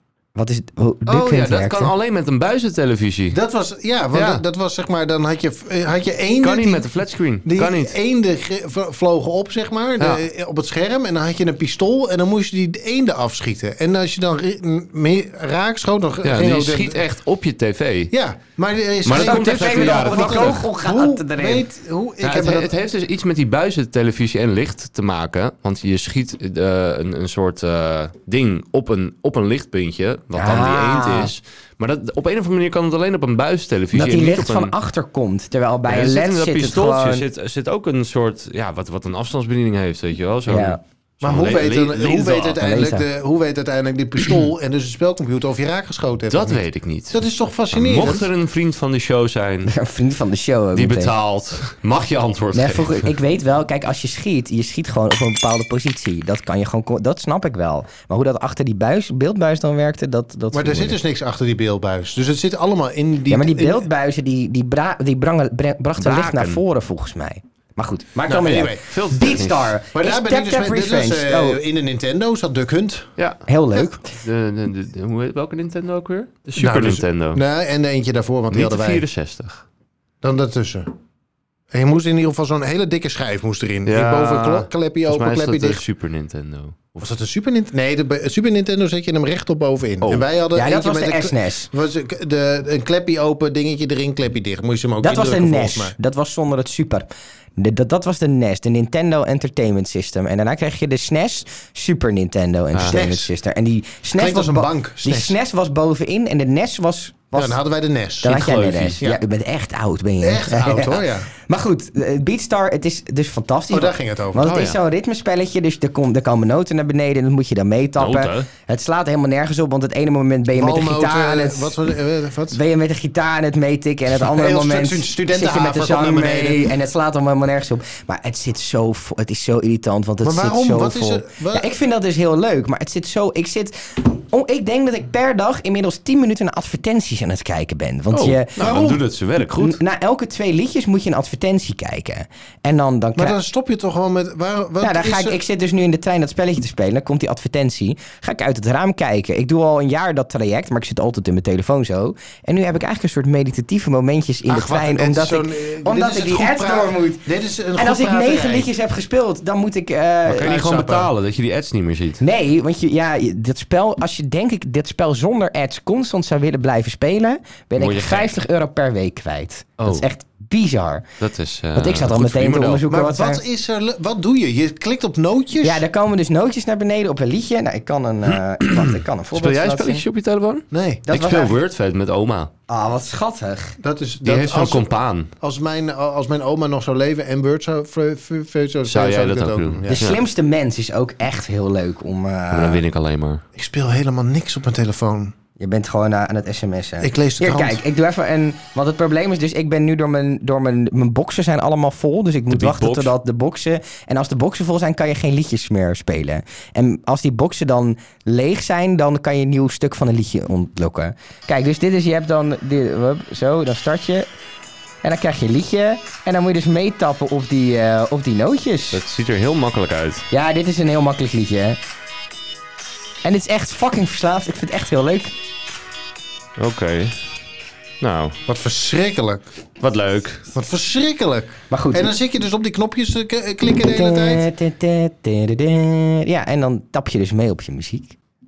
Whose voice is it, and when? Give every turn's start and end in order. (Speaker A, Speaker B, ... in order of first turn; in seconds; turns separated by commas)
Speaker A: 0.4-1.9, Speaker B: 1.1-3.4, Speaker C: 3.3-6.9, Speaker B: 4.1-4.4, Speaker B: 6.4-8.0, Speaker C: 7.5-17.0, Speaker B: 16.2-18.1, Speaker C: 18.1-22.8, Speaker B: 19.1-20.7, Speaker A: 19.1-21.7, Speaker B: 22.2-34.7, Speaker A: 30.4-31.3, Speaker A: 33.9-37.2, Speaker B: 35.9-42.6, Speaker A: 40.5-40.8, Speaker C: 41.2-48.3, Speaker A: 42.6-43.0, Speaker B: 46.3-47.2, Speaker B: 47.7-49.7, Speaker A: 49.7-51.1, Speaker B: 50.8-53.1, Speaker A: 52.5-61.0, Speaker C: 60.5-63.9, Speaker A: 63.3-71.6, Speaker B: 66.0-66.6, Speaker C: 68.3-68.9, Speaker B: 68.9-69.8, Speaker C: 69.9-73.1, Speaker B: 73.2-77.4, Speaker A: 73.5-74.1, Speaker C: 76.6-79.0, Speaker B: 78.5-79.7, Speaker C: 80.2-80.9, Speaker C: 81.7-85.8, Speaker B: 83.9-87.1, Speaker C: 87.0-96.0, Speaker A: 90.5-91.7, Speaker A: 95.0-107.6, Speaker B: 102.7-103.0, Speaker C: 102.9-103.3, Speaker C: 104.2-105.4, Speaker C: 107.3-108.4, Speaker A: 108.2-121.8, Speaker B: 108.2-109.0, Speaker C: 110.2-111.3, Speaker C: 113.7-114.6, Speaker B: 114.5-114.8, Speaker B: 118.0-118.5, Speaker C: 120.5-122.6, Speaker A: 122.5-138.6, Speaker C: 124.2-126.7, Speaker C: 130.2-131.7, Speaker B: 138.1-139.8, Speaker C: 138.6-139.0, Speaker A: 139.6-143.4, Speaker C: 143.2-145.4, Speaker A: 144.8-157.2, Speaker C: 154.5-158.7, Speaker A: 157.8-160.6, Speaker B: 160.3-162.2, Speaker C: 160.4-161.1, Speaker A: 162.2-171.1, Speaker B: 167.8-168.4, Speaker B: 169.8-170.1, Speaker B: 171.2-172.8, Speaker A: 171.8-173.4, Speaker C: 172.9-175.8, Speaker A: 175.6-180.0, Speaker B: 178.3-182.5, Speaker C: 180.7-181.1, Speaker A: 181.1-181.6, Speaker A: 182.7-183.8, Speaker C: 183.8-190.1, Speaker B: 184.2-185.3, Speaker B: 188.8-190.2, Speaker A: 189.9-192.8, Speaker B: 192.5-193.4, Speaker C: 193.6-195.3, Speaker A: 195.6-214.3, Speaker C: 197.0-197.8, Speaker B: 202.5-203.1, Speaker A: 215.0-219.0, Speaker B: 218.9-220.3, Speaker A: 220.3-221.8, Speaker A: 223.2-225.3, Speaker B: 226.6-227.2, Speaker B: 228.0-228.4, Speaker C: 228.5-229.4, Speaker B: 229.8-230.5, Speaker C: 230.5-234.5, Speaker A: 231.7-232.1, Speaker A: 233.8-238.2